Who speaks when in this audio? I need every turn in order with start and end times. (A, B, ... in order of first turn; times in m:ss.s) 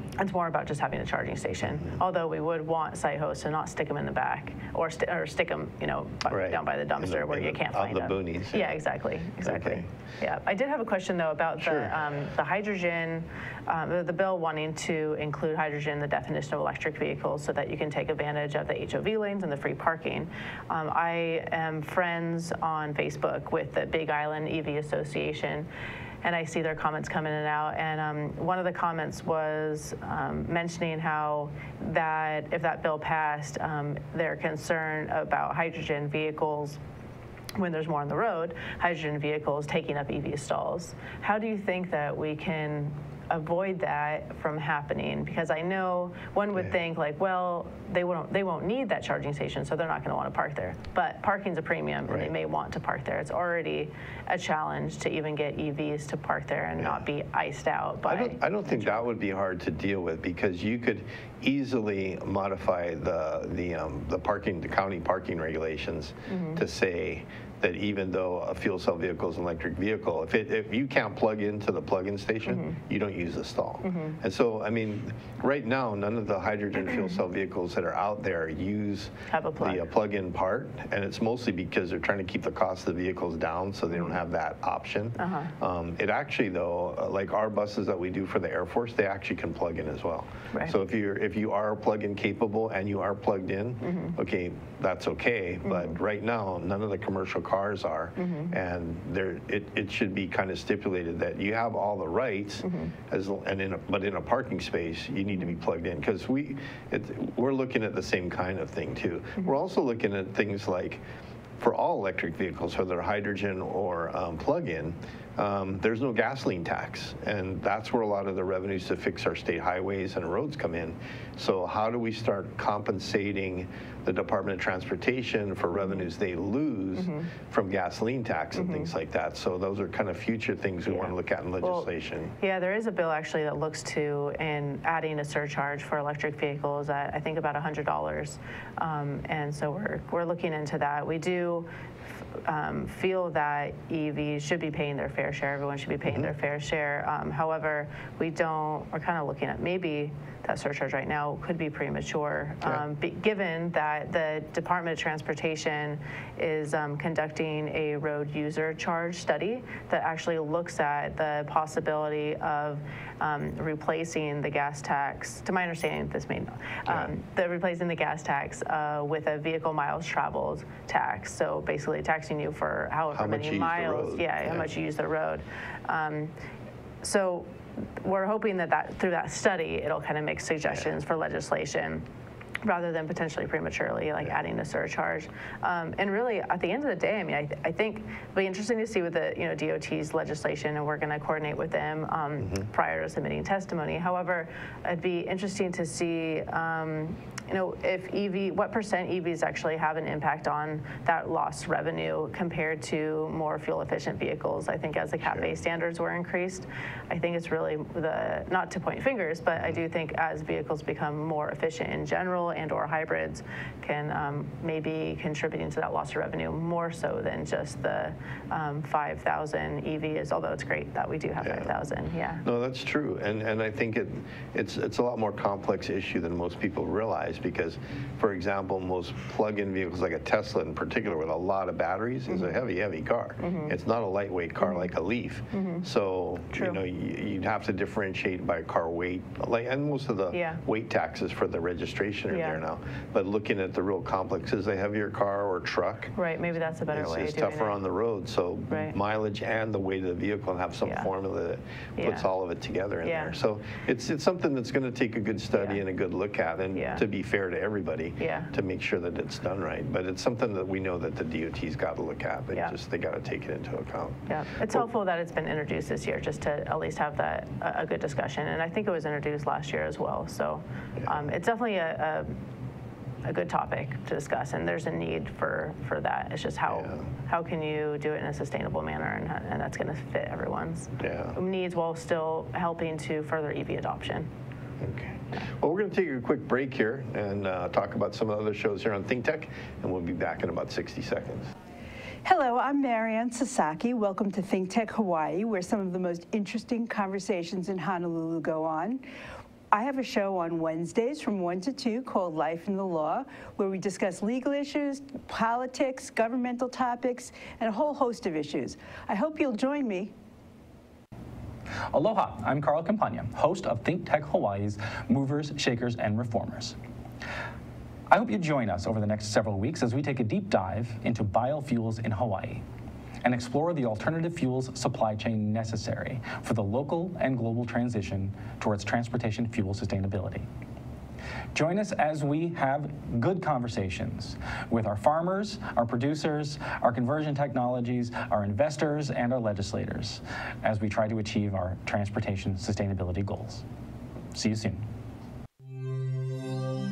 0:00.2-0:25.7 A
0:06.3-0:08.8 B
0:09.4-0:09.9 B
0:11.6-0:12.1 B
0:26.2-0:36.8 A
0:37.6-0:59.1 A
0:52.1-0:52.3 B
0:58.1-1:51.0 B
1:06.3-1:06.6 A
1:12.5-1:12.8 A
1:13.8-1:14.2 A
1:19.3-1:19.8 A
1:25.2-1:25.5 A
1:33.8-1:34.2 A
1:35.6-1:36.0 A
1:38.2-1:38.5 A
1:42.6-1:42.9 A
1:51.6-2:12.4 B
2:05.8-2:06.1 A
2:07.0-2:07.3 A
2:08.6-2:08.9 A
2:10.9-2:11.9 A
2:12.4-2:21.7 A
2:22.4-2:56.3 A
2:26.0-2:26.3 B
2:46.9-2:47.1 B
2:53.1-2:54.7 B
2:57.0-3:02.0 A
3:02.6-3:42.4 A
3:12.4-3:12.7 B
3:25.2-3:25.5 B
3:41.4-3:41.7 B
3:42.4-4:06.1 B
3:53.4-3:53.7 A
3:54.6-3:54.9 A
3:55.5-3:55.8 A
3:56.5-3:56.8 A
4:00.3-4:00.6 A
4:02.3-4:02.6 A
4:06.2-4:07.8 A
4:06.9-4:24.9 B
4:08.7-4:09.0 A
4:12.0-4:12.3 A
4:13.0-4:13.3 A
4:15.5-4:15.8 A
4:16.7-4:17.0 A
4:18.2-4:18.5 A
4:24.3-4:32.4 A
4:33.2-4:44.3 A
4:36.7-4:37.0 B
4:41.0-4:41.4 B
4:44.8-4:51.5 B
4:52.2-4:59.0 C
4:59.7-5:10.1 C
5:11.9-5:16.8 D
5:18.1-5:22.6 D
5:23.2-5:30.5 D
5:31.5-5:43.6 D
5:44.3-5:44.8 D